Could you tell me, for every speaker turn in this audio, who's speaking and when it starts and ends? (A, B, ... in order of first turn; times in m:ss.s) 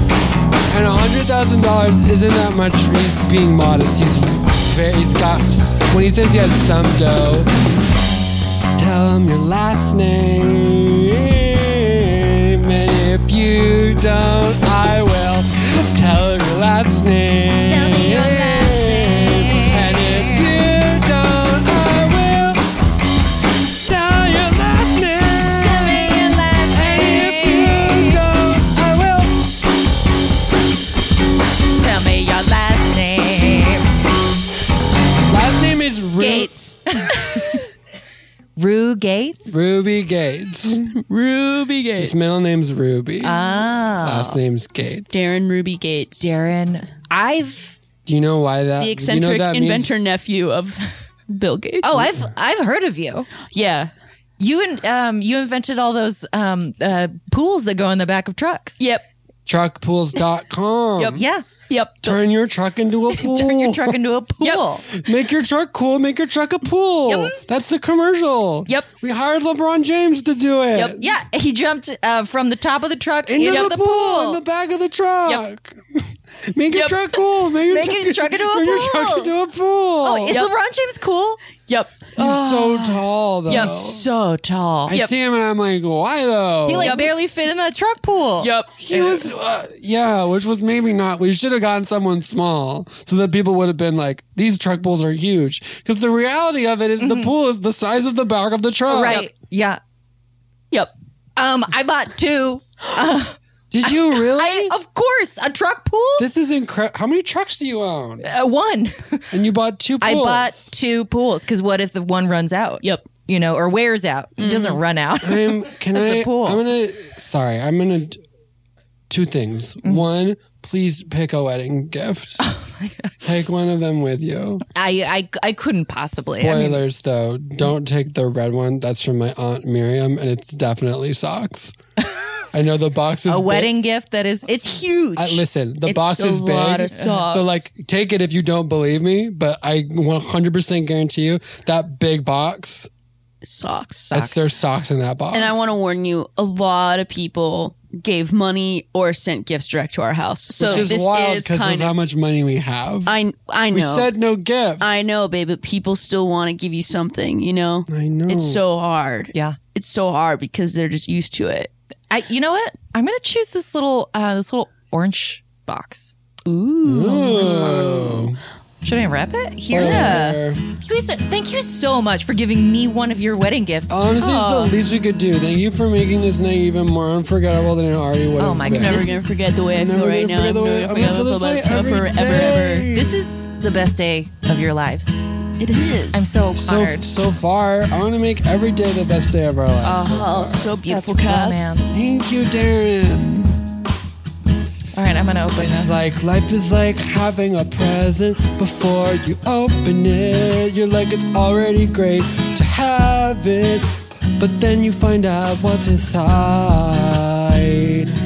0:00.7-0:07.5 A
0:08.8-0:22.6 A
0:17.6-0:20.5 B
0:23.8-0:26.2 A
0:25.6-0:28.2 B
0:26.7-0:29.4 A
0:31.8-0:33.8 B
0:35.3-0:36.5 A
0:36.2-0:37.6 C
0:36.9-0:37.6 B
0:38.6-0:39.6 B
0:39.5-0:40.9 A
0:40.9-0:42.4 C
0:42.0-0:43.4 A
0:43.2-0:44.4 B
0:44.0-0:45.2 A
0:45.1-0:46.4 C
0:46.2-0:47.8 B
0:48.0-0:49.9 A
0:48.8-0:52.1 C
0:51.8-0:53.3 B
0:53.5-0:53.9 C
0:54.4-0:58.8 B
0:58.8-0:59.0 C
0:59.5-1:01.2 A
1:01.0-1:02.2 C
1:01.1-1:01.4 B
1:02.0-1:04.0 A
1:03.1-1:05.0 B
1:04.9-1:11.0 A
1:07.1-1:07.3 C
1:11.0-1:14.4 B
1:13.3-1:20.4 A
1:13.4-1:13.7 C
1:16.7-1:17.0 C
1:17.7-1:19.3 B
1:20.0-1:21.4 B
1:21.7-1:22.1 C
1:22.2-1:24.0 A
1:22.2-1:22.9 B
1:23.5-1:24.9 B
1:23.5-1:23.7 C
1:24.9-1:27.0 A
1:26.6-1:29.2 B
1:26.8-1:27.1 C
1:28.4-1:28.8 C
1:28.8-1:39.3 A
1:37.0-1:37.3 B
1:38.9-1:39.8 B
1:41.4-1:46.3 B
1:43.7-1:44.7 A
1:46.2-1:48.3 A
1:48.2-1:49.4 B
1:49.3-1:50.6 A
1:50.0-1:56.6 B
1:54.4-1:54.8 C
1:55.2-1:58.2 A
1:59.1-2:02.4 A
2:02.4-2:03.1 B
2:03.2-2:04.6 A
2:04.7-2:06.8 B
2:06.4-2:11.7 A
2:12.5-2:13.7 A
2:13.3-2:15.4 B
2:15.2-2:22.9 A
2:15.8-2:17.6 C
2:16.9-2:17.2 B
2:23.4-2:24.1 C
2:24.1-2:24.5 B
2:24.1-2:25.6 A
2:25.3-2:31.9 C
2:30.6-2:33.1 A
2:30.6-2:30.9 B
2:33.0-2:34.1 C
2:33.7-2:35.0 A
2:34.8-2:41.7 C
2:37.9-2:38.6 A
2:39.3-2:39.6 B
2:42.1-2:46.1 B
2:46.5-2:48.1 C
2:46.8-2:48.4 A
2:47.4-2:48.1 B
2:48.8-2:54.0 B
2:49.7-2:50.6 A
2:49.8-2:50.4 C
2:53.9-3:03.1 A
2:54.2-2:54.7 C
2:58.4-2:59.5 B
2:58.7-3:02.9 C
3:02.9-3:05.2 B
3:05.6-3:06.3 C
3:06.1-3:07.1 B
3:06.5-3:10.7 A
3:09.8-3:12.0 B
3:09.9-3:11.8 C
3:11.9-3:13.6 A
3:14.9-3:16.0 B
3:15.6-3:28.1 A